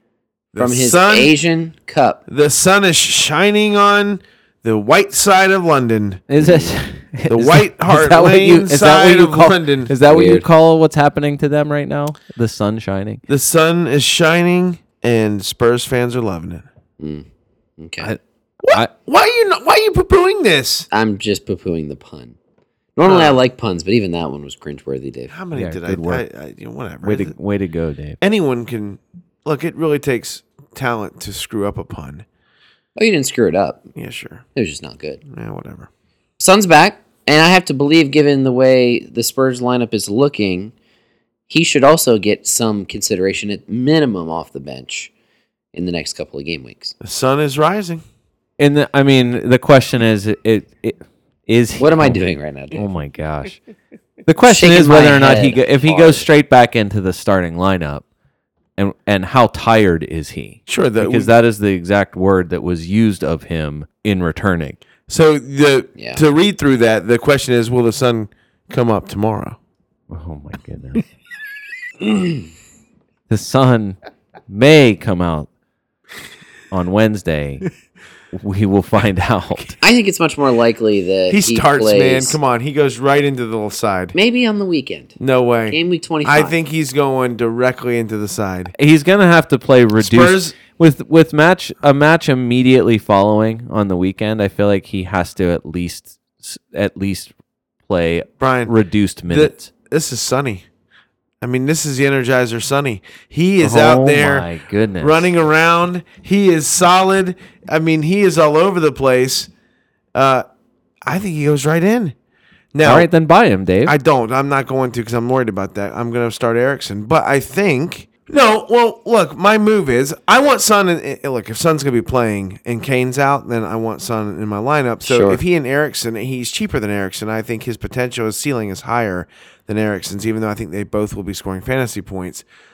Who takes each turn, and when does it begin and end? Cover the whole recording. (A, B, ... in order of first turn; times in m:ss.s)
0:00.5-0:01.3 A
0:00.6-0:02.2 B
0:02.3-0:06.7 A
0:06.3-0:13.2 C
0:07.3-0:09.9 A
0:10.0-0:10.4 B
0:13.3-0:16.6 A
0:17.0-0:17.2 B
0:17.8-0:18.1 B
0:18.0-0:18.9 C
0:18.6-0:20.9 A
0:20.9-0:22.4 B
0:23.0-0:25.3 B
0:23.0-0:23.4 A
0:25.3-0:27.3 A
0:25.5-0:26.2 C
0:27.0-0:28.2 C
0:28.2-0:32.2 A
0:33.0-0:33.8 B
0:33.9-0:34.4 A
0:34.5-0:35.2 B
0:35.2-0:35.9 A
0:36.4-0:40.7 B
0:41.5-0:45.1 B
0:45.7-0:46.9 B
0:47.0-0:48.0 A
0:48.6-0:52.2 C
0:51.8-0:52.8 B
0:52.7-0:53.6 C
0:54.2-0:58.0 C
0:54.4-0:56.3 B
0:58.8-1:04.8 C
1:00.7-1:01.3 A
1:05.1-1:09.6 A
1:06.0-1:06.2 B
1:10.1-1:11.0 C
1:12.1-1:12.4 B
1:13.3-1:14.0 C
1:14.5-1:15.5 C
1:16.7-1:17.7 C
1:18.3-1:19.8 C
1:19.8-1:22.4 B
1:21.3-1:24.1 A
1:24.1-1:25.2 B
1:25.2-1:28.7 A
1:25.7-1:26.5 B
1:28.7-1:37.3 C
1:30.0-1:30.6 A
1:37.9-1:39.7 C
1:38.4-1:38.7 A
1:39.3-1:40.6 A
1:41.4-1:44.5 A
1:43.6-1:45.3 C
1:45.0-1:49.5 A
1:50.1-1:50.4 A
1:51.0-1:52.1 A
1:52.7-1:53.1 A
1:52.8-1:53.9 C
1:53.8-2:12.4 A
2:05.0-2:05.4 B